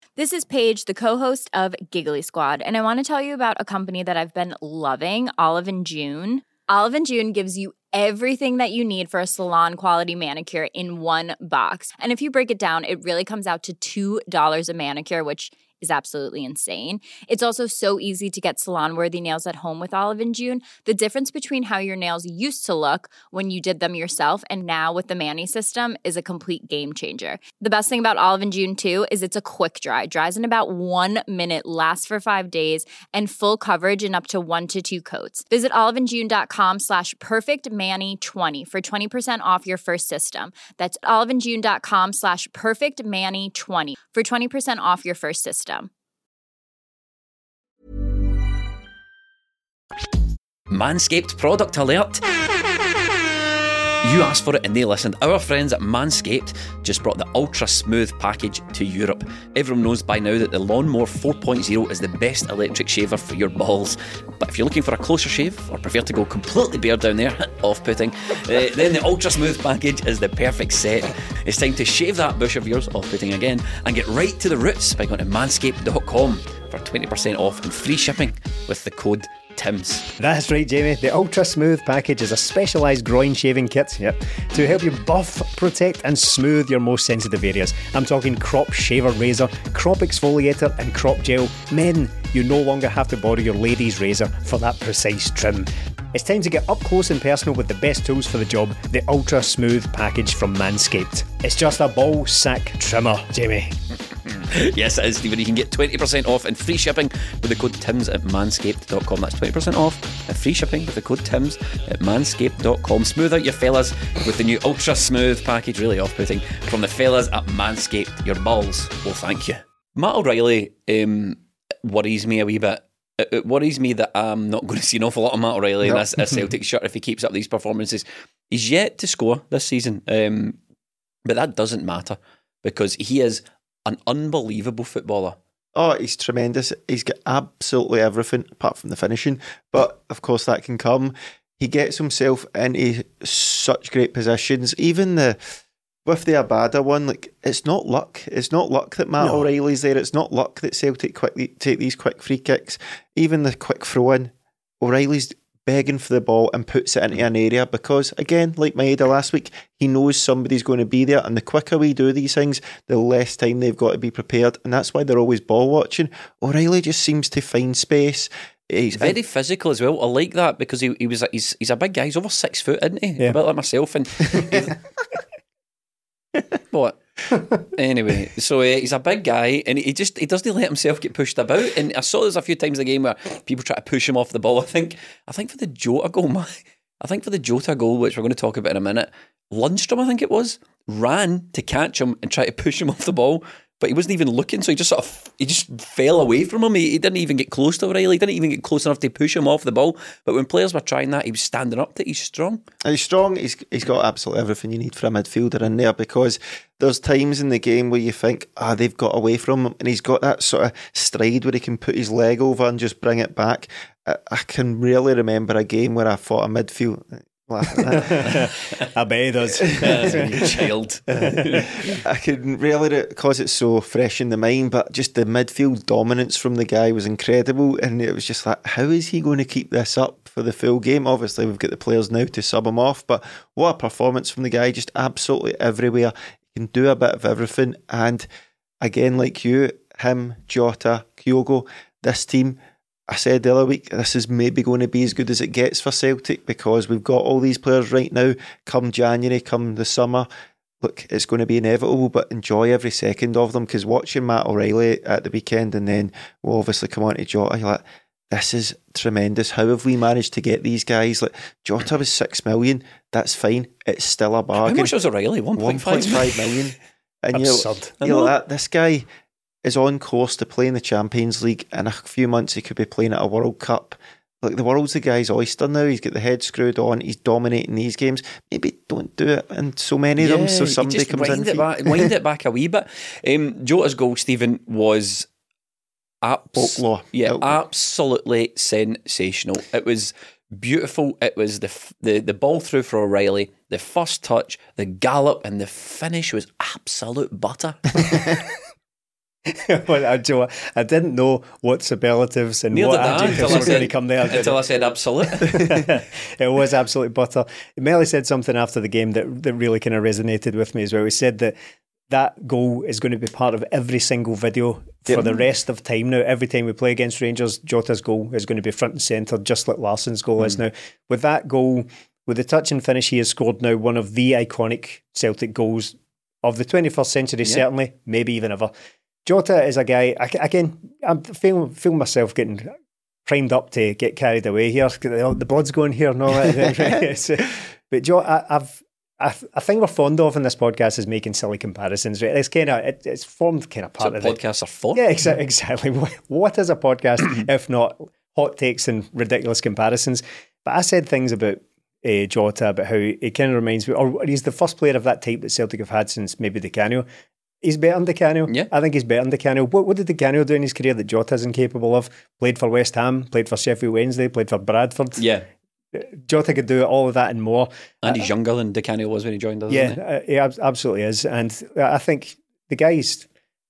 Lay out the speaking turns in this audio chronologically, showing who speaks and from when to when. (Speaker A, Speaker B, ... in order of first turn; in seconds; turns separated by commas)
Speaker A: 0.2-45.9, Speaker B: 50.7-52.2, Speaker B: 54.0-80.0, Speaker C: 80.2-103.7, Speaker B: 104.2-130.6, Speaker B: 131.2-135.4, Speaker D: 135.7-145.4, Speaker D: 146.1-169.1, Speaker C: 149.2-149.4, Speaker B: 169.0-174.7, Speaker B: 176.7-177.0, Speaker B: 177.7-202.6, Speaker D: 202.8-218.4, Speaker C: 217.8-220.5, Speaker B: 218.1-218.8, Speaker D: 219.7-220.2, Speaker B: 219.7-221.9, Speaker C: 221.1-221.7, Speaker D: 221.8-238.3, Speaker D: 238.8-242.6, Speaker D: 243.1-250.3, Speaker D: 250.8-264.9, Speaker B: 264.6-266.5, Speaker D: 265.6-269.0, Speaker C: 267.3-267.9, Speaker B: 268.0-268.3, Speaker D: 269.6-282.1, Speaker B: 280.2-285.3, Speaker B: 286.2-297.9, Speaker D: 286.6-287.5, Speaker C: 299.4-304.6, Speaker B: 302.7-305.8, Speaker C: 305.4-311.5, Speaker C: 312.1-328.7, Speaker C: 329.2-332.7, Speaker C: 333.2-344.4, Speaker B: 344.0-345.0, Speaker C: 344.9-357.1, Speaker C: 357.6-365.2, Speaker B: 365.2-365.5, Speaker C: 365.9-368.3, Speaker B: 368.0-370.0, Speaker C: 369.7-373.3